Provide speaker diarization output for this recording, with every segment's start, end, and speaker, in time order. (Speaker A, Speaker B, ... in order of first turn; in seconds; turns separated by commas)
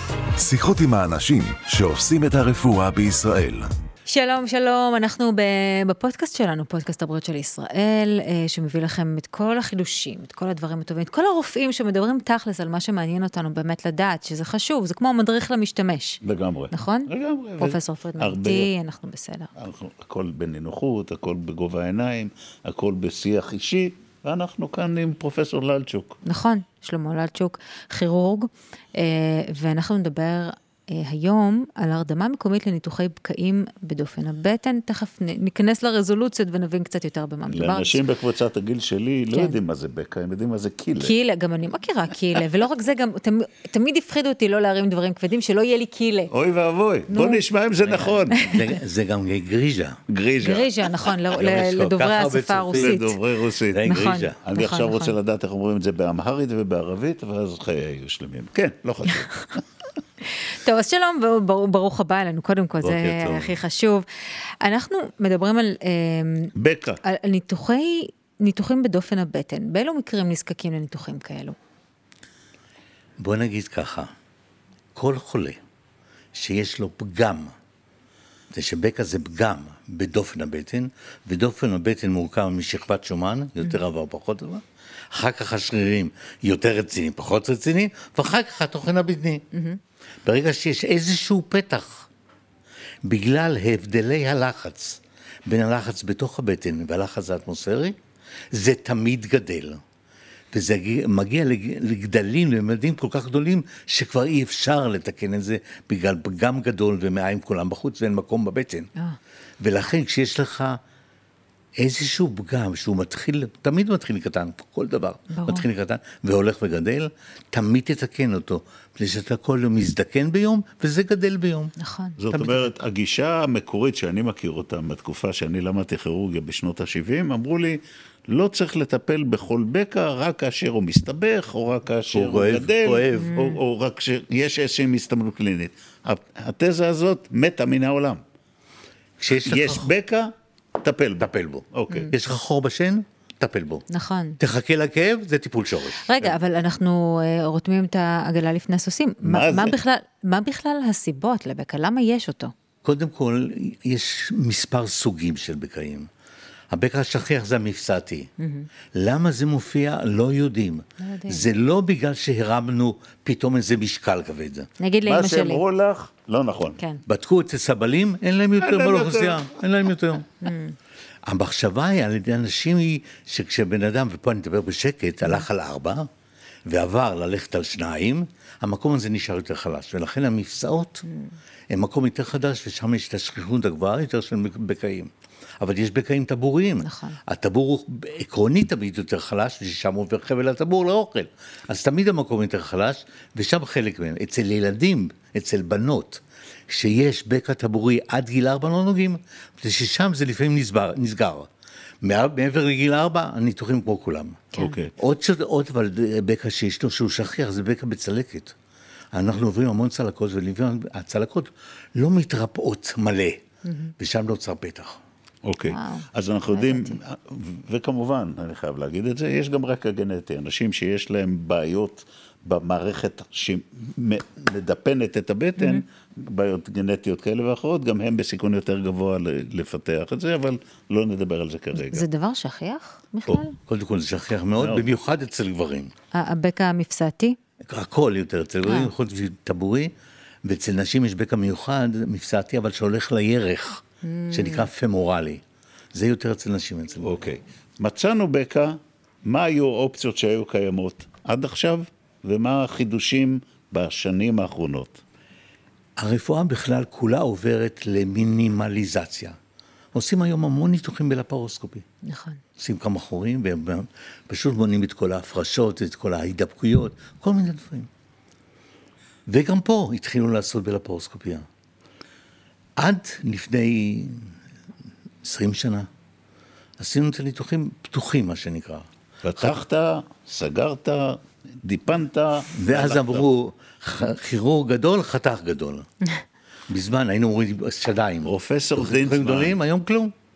Speaker A: 0.3-3.7, Speaker B: 4.0-16.2, Speaker C: 16.2-18.7, Speaker B: 16.7-19.5, Speaker C: 19.6-26.2, Speaker B: 26.2-38.0, Speaker C: 37.5-41.1, Speaker B: 39.3-39.6, Speaker B: 41.0-46.3, Speaker C: 46.3-48.4, Speaker B: 47.1-48.6, Speaker D: 48.3-50.0, Speaker C: 50.1-51.1, Speaker B: 50.4-53.2, Speaker D: 51.3-53.0, Speaker C: 52.7-53.8, Speaker D: 53.7-54.4, Speaker B: 53.8-55.1, Speaker C: 54.4-59.6, Speaker B: 60.2-64.0, Speaker D: 62.8-63.6, Speaker B: 64.6-66.5, Speaker C: 66.5-67.0, Speaker B: 67.0-71.5, Speaker D: 73.2-74.1, Speaker D: 74.9-75.6, Speaker D: 76.3-77.5, Speaker D: 78.5-84.6, Speaker D: 85.1-89.4, Speaker B: 89.5-89.8, Speaker D: 90.2-92.1, Speaker D: 93.0-97.9, Speaker D: 98.5-99.8, Speaker D: 100.5-108.9, Speaker D: 109.6-110.8, Speaker D: 111.8-121.7, Speaker B: 115.3-115.6, Speaker B: 121.8-122.2, Speaker C: 122.2-138.2, Speaker D: 122.3-122.7, Speaker D: 132.1-133.3, Speaker B: 133.1-133.6, Speaker D: 139.2-139.9, Speaker C: 139.4-140.3, Speaker C: 140.8-142.1, Speaker D: 141.2-143.8, Speaker B: 143.9-144.4, Speaker D: 144.4-146.3, Speaker B: 145.9-152.5, Speaker C: 149.2-149.8, Speaker D: 152.8-156.1, Speaker D: 156.7-158.3, Speaker B: 158.4-158.7, Speaker D: 158.9-164.7, Speaker B: 161.0-161.5, Speaker B: 164.8-165.6, Speaker C: 165.1-166.8, Speaker B: 166.8-167.0, Speaker D: 167.1-170.4, Speaker C: 168.6-169.4, Speaker B: 170.4-170.8, Speaker D: 171.3-176.1, Speaker D: 176.7-181.0, Speaker B: 181.1-181.3, Speaker D: 181.7-201.5, Speaker B: 186.8-187.2, Speaker D: 202.0-208.5, Speaker C: 204.6-204.9, Speaker D: 209.1-213.4, Speaker B: 213.6-213.9, Speaker D: 214.0-215.0, Speaker C: 215.4-232.0, Speaker B: 215.7-217.0, Speaker B: 225.6-225.8, Speaker B: 231.7-233.6, Speaker D: 233.6-235.9, Speaker C: 234.6-234.9, Speaker B: 236.1-237.3, Speaker D: 237.6-239.9, Speaker B: 238.7-238.9, Speaker D: 240.4-245.4, Speaker B: 244.0-244.7, Speaker D: 245.9-247.2, Speaker C: 247.0-255.0, Speaker D: 256.0-259.3, Speaker D: 259.9-261.8, Speaker B: 262.0-262.4, Speaker D: 262.6-267.9, Speaker D: 269.3-271.4, Speaker D: 272.8-274.3, Speaker D: 275.2-275.9, Speaker D: 276.8-278.9, Speaker C: 279.2-283.2, Speaker D: 282.5-285.9, Speaker D: 286.7-290.1, Speaker C: 288.2-289.6